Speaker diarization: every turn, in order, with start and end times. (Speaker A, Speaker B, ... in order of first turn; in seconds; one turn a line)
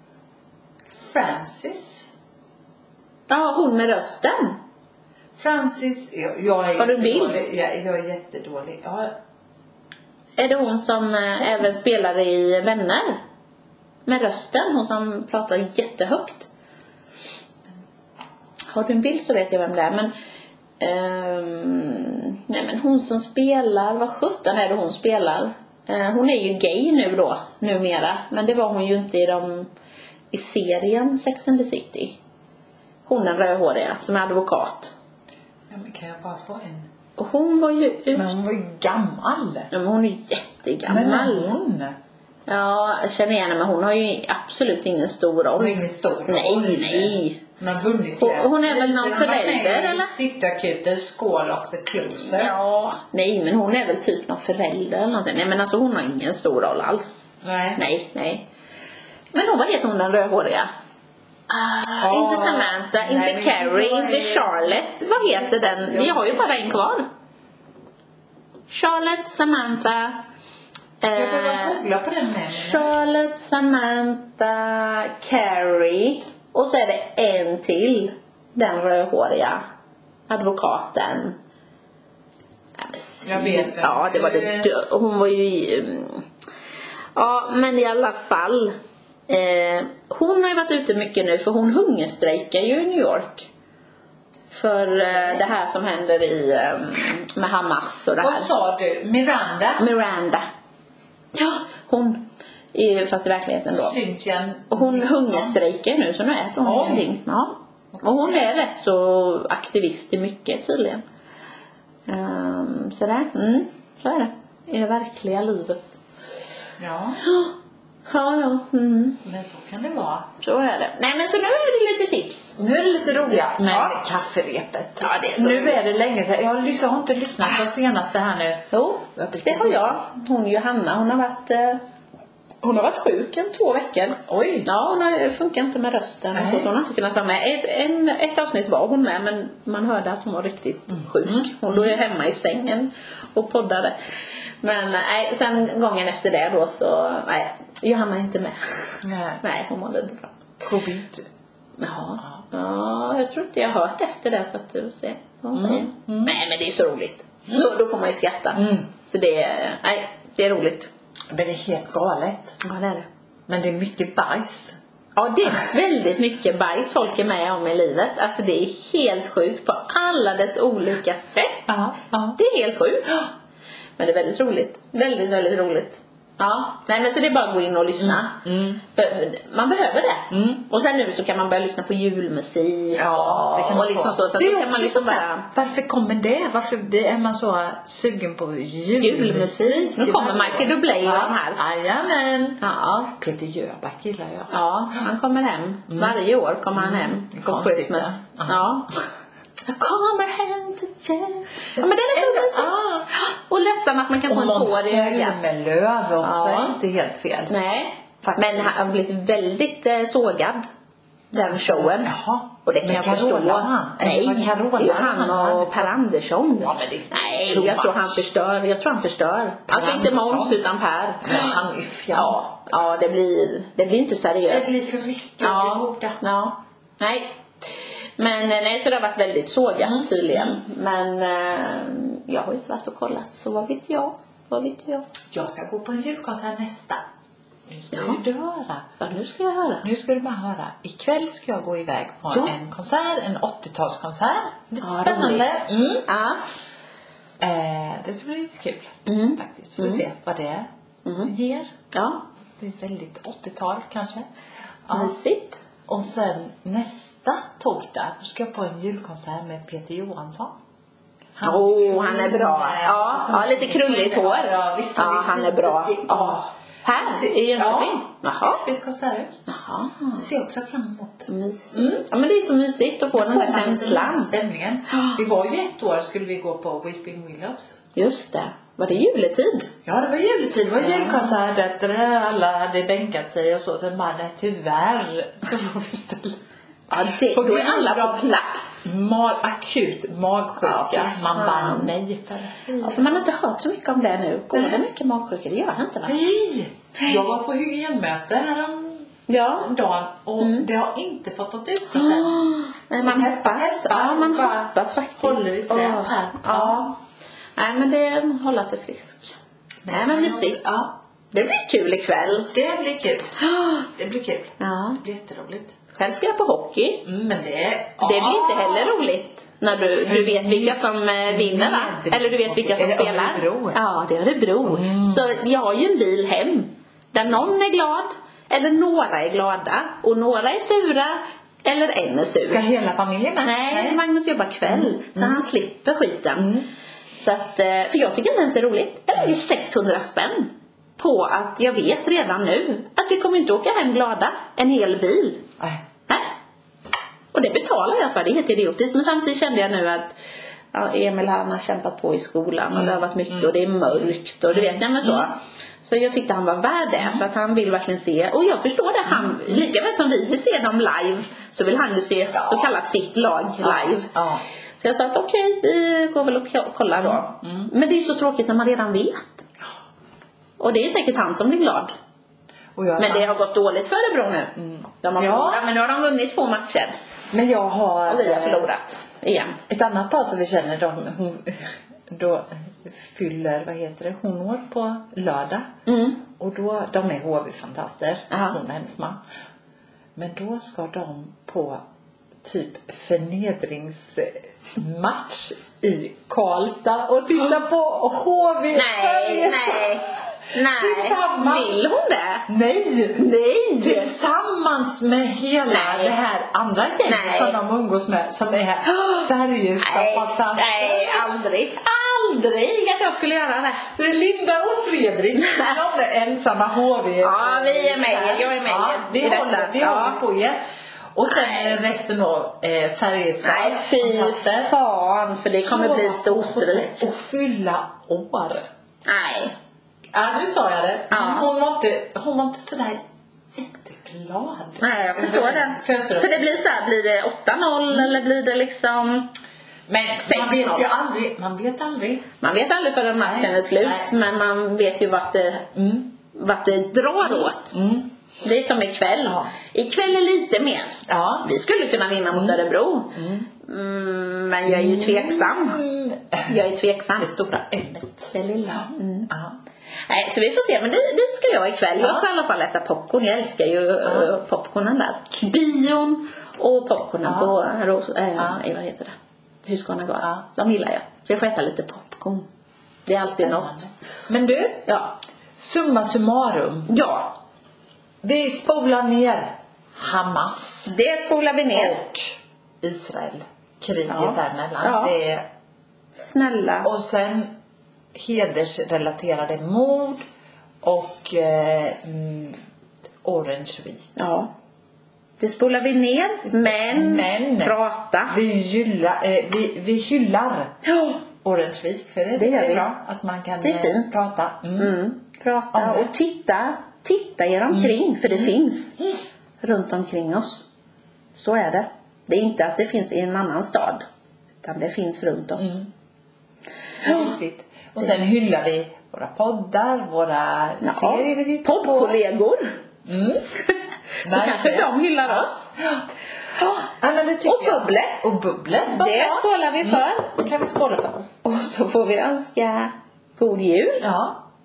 Speaker A: 0.9-2.1
Speaker B: 3.3-4.6
Speaker A: 5.3-9.2
Speaker B: 6.8-7.4
Speaker B: 10.4-13.2
Speaker B: 14.1-16.5
Speaker B: 18.7-20.1
Speaker B: 20.8-29.7
Speaker B: 30.3-32.2
Speaker B: 33.0-34.9
Speaker A: 35.7-36.9
Speaker B: 37.2-38.2
Speaker A: 38.1-39.7
Speaker B: 39.7-41.5
Speaker A: 40.9-42.0
Speaker B: 42.5-47.4
Speaker A: 45.6-52.5
Speaker B: 48.2-50.1
Speaker B: 52.2-58.5
Speaker A: 57.4-57.8
Speaker B: 59.3-60.7
Speaker B: 61.5-67.1
Speaker A: 61.9-66.5
Speaker B: 68.7-70.2
Speaker B: 71.0-71.8
Speaker A: 71.1-72.9
Speaker B: 72.5-79.6
Speaker B: 80.3-81.3
Speaker B: 82.8-86.2
Speaker A: 83.2-84.7
Speaker B: 87.2-88.7
Speaker B: 89.3-93.5
Speaker B: 94.5-98.5
Speaker A: 98.2-99.8
Speaker B: 99.8-100.5
Speaker B: 101.3-104.0
Speaker A: 103.7-105.6
Speaker B: 104.7-111.0
Speaker A: 106.6-107.1
Speaker A: 108.0-108.3
Speaker B: 112.1-116.0
Speaker A: 116.8-117.2
Speaker B: 117.2-117.5
Speaker B: 118.1-119.2
Speaker A: 119.2-120.3
Speaker B: 120.4-122.5
Speaker A: 122.5-130.0
Speaker B: 123.3-124.0
Speaker B: 125.0-125.8
Speaker B: 128.7-131.8
Speaker B: 132.6-144.0
Speaker A: 134.3-134.7
Speaker A: 136.3-136.7
Speaker A: 141.2-142.0
Speaker B: 144.6-150.4
Speaker A: 149.0-149.4
Speaker A: 150.6-151.3
Speaker B: 151.8-160.9
Speaker A: 155.5-156.3
Speaker A: 158.5-158.9
Speaker A: 161.3-162.6
Speaker B: 162.6-163.1
Speaker A: 163.5-164.8
Speaker B: 165.2-171.6
Speaker A: 171.7-172.4
Speaker B: 172.3-173.3
Speaker B: 174.0-178.4
Speaker A: 178.0-178.8
Speaker B: 178.9-185.5
Speaker A: 180.3-180.6
Speaker A: 182.9-194.5
Speaker B: 189.0-191.6
Speaker B: 192.6-193.1
Speaker B: 194.5-199.0
Speaker A: 195.9-196.2
Speaker A: 196.7-198.7
Speaker B: 199.7-205.4
Speaker A: 201.8-203.1
Speaker A: 204.3-207.5
Speaker B: 206.2-206.8
Speaker B: 207.5-210.7
Speaker A: 208.2-208.8
Speaker B: 211.3-212.1
Speaker A: 211.3-216.0
Speaker B: 212.6-224.9
Speaker A: 216.6-218.3
Speaker A: 219.7-220.6
Speaker A: 221.2-222.9
Speaker A: 224.5-226.2
Speaker B: 225.4-235.0
Speaker A: 229.8-230.6
Speaker A: 235.3-237.0
Speaker A: 237.7-238.9
Speaker B: 237.9-238.2
Speaker B: 239.0-239.8
Speaker A: 239.8-246.1
Speaker B: 244.8-245.5
Speaker B: 246.1-246.4
Speaker A: 247.4-250.7
Speaker B: 249.1-250.0
Speaker B: 251.0-251.3
Speaker A: 251.2-251.7
Speaker B: 251.9-252.2
Speaker A: 252.6-254.3
Speaker A: 254.8-255.2
Speaker B: 254.9-255.6
Speaker A: 255.9-260.5
Speaker A: 261.4-269.4
Speaker B: 261.4-268.6
Speaker B: 269.5-270.3
Speaker A: 270.2-272.0
Speaker B: 271.3-274.3
Speaker A: 273.1-277.8
Speaker B: 274.9-275.2
Speaker B: 277.9-279.7
Speaker A: 279.8-286.4
Speaker B: 280.8-281.3
Speaker B: 286.9-288.9
Speaker A: 287.1-288.2
Speaker A: 288.8-293.2
Speaker B: 290.6-291.9
Speaker B: 292.8-296.2
Speaker A: 296.1-299.1
Speaker B: 299.3-299.7
Speaker A: 299.6-306.9
Speaker B: 300.4-300.6
Speaker B: 301.9-307.0
Speaker B: 307.6-309.3
Speaker A: 309.8-310.9
Speaker B: 309.9-310.6
Speaker B: 311.3-312.5
Speaker A: 311.9-315.8
Speaker B: 313.5-313.8
Speaker B: 314.6-315.0
Speaker B: 315.9-317.0
Speaker A: 317.0-318.9
Speaker B: 318.0-332.6
Speaker A: 319.9-323.8
Speaker A: 324.6-325.2
Speaker A: 332.4-334.0
Speaker B: 333.4-336.6
Speaker A: 334.6-335.4
Speaker A: 336.4-336.7
Speaker B: 337.1-345.5
Speaker B: 347.3-350.1
Speaker B: 350.7-364.1
Speaker A: 352.7-353.5
Speaker A: 354.5-355.3
Speaker A: 359.1-359.6
Speaker A: 362.3-362.7
Speaker A: 363.6-364.4
Speaker B: 364.8-369.4
Speaker A: 366.9-367.7
Speaker B: 370.6-371.9
Speaker A: 372.8-373.3
Speaker B: 373.0-377.0
Speaker A: 374.6-375.6
Speaker A: 377.3-378.7
Speaker B: 378.1-379.6
Speaker A: 379.7-385.7
Speaker B: 385.9-386.2
Speaker A: 386.3-389.2
Speaker B: 388.3-388.6
Speaker A: 390.1-391.8
Speaker A: 392.4-401.8
Speaker B: 398.7-402.5
Speaker A: 402.5-411.3
Speaker B: 403.2-404.1
Speaker B: 405.7-406.1
Speaker B: 407.1-407.6
Speaker B: 408.9-409.3
Speaker B: 409.8-413.9
Speaker A: 413.9-420.6
Speaker B: 415.4-415.7
Speaker B: 417.2-420.2
Speaker A: 421.1-424.7
Speaker B: 421.3-421.8
Speaker B: 423.4-427.1
Speaker A: 425.5-428.6
Speaker B: 429.1-429.5
Speaker A: 430.1-436.6
Speaker B: 431.1-431.5
Speaker B: 434.8-439.3
Speaker A: 437.9-438.2
Speaker A: 439.9-442.3
Speaker B: 440.2-440.9
Speaker B: 442.4-445.7
Speaker A: 443.2-444.1
Speaker A: 445.7-446.1
Speaker B: 446.3-447.8
Speaker A: 447.2-448.1
Speaker B: 448.4-455.8
Speaker A: 449.2-449.5
Speaker A: 451.1-451.5
Speaker A: 452.3-452.6
Speaker A: 453.1-453.5
Speaker A: 454.6-456.6
Speaker B: 456.4-457.4
Speaker A: 457.2-459.5
Speaker B: 458.3-459.3
Speaker B: 460.1-472.5
Speaker A: 462.0-462.2
Speaker A: 464.0-464.3
Speaker A: 467.2-467.5
Speaker A: 468.4-468.6
Speaker B: 473.1-473.8
Speaker A: 473.4-474.9
Speaker B: 474.9-475.1
Speaker A: 475.6-476.9
Speaker B: 476.9-477.4
Speaker A: 478.2-480.9
Speaker B: 480.9-482.0
Speaker A: 481.7-485.4
Speaker B: 484.1-485.1
Speaker B: 486.1-486.9
Speaker A: 486.8-487.5
Speaker A: 488.1-490.2
Speaker A: 490.8-492.6
Speaker A: 493.2-494.1
Speaker B: 494.1-494.5
Speaker B: 495.4-498.4
Speaker A: 496.4-497.7
Speaker A: 498.3-500.7
Speaker B: 500.8-501.2
Speaker A: 501.4-504.9
Speaker B: 502.4-502.9
Speaker B: 503.6-504.2
Speaker B: 504.8-509.0
Speaker A: 505.7-506.1
Speaker A: 507.7-508.5
Speaker B: 509.6-510.7
Speaker B: 511.4-514.0
Speaker B: 514.6-515.8
Speaker A: 515.6-515.9
Speaker B: 517.0-517.3
Speaker A: 517.0-522.2
Speaker B: 520.8-522.8
Speaker A: 523.0-523.5
Speaker B: 524.2-525.7
Speaker A: 524.2-526.0
Speaker B: 526.6-526.9
Speaker A: 527.0-531.3
Speaker B: 527.4-528.3
Speaker B: 528.8-530.4
Speaker B: 531.4-534.1
Speaker A: 534.0-534.4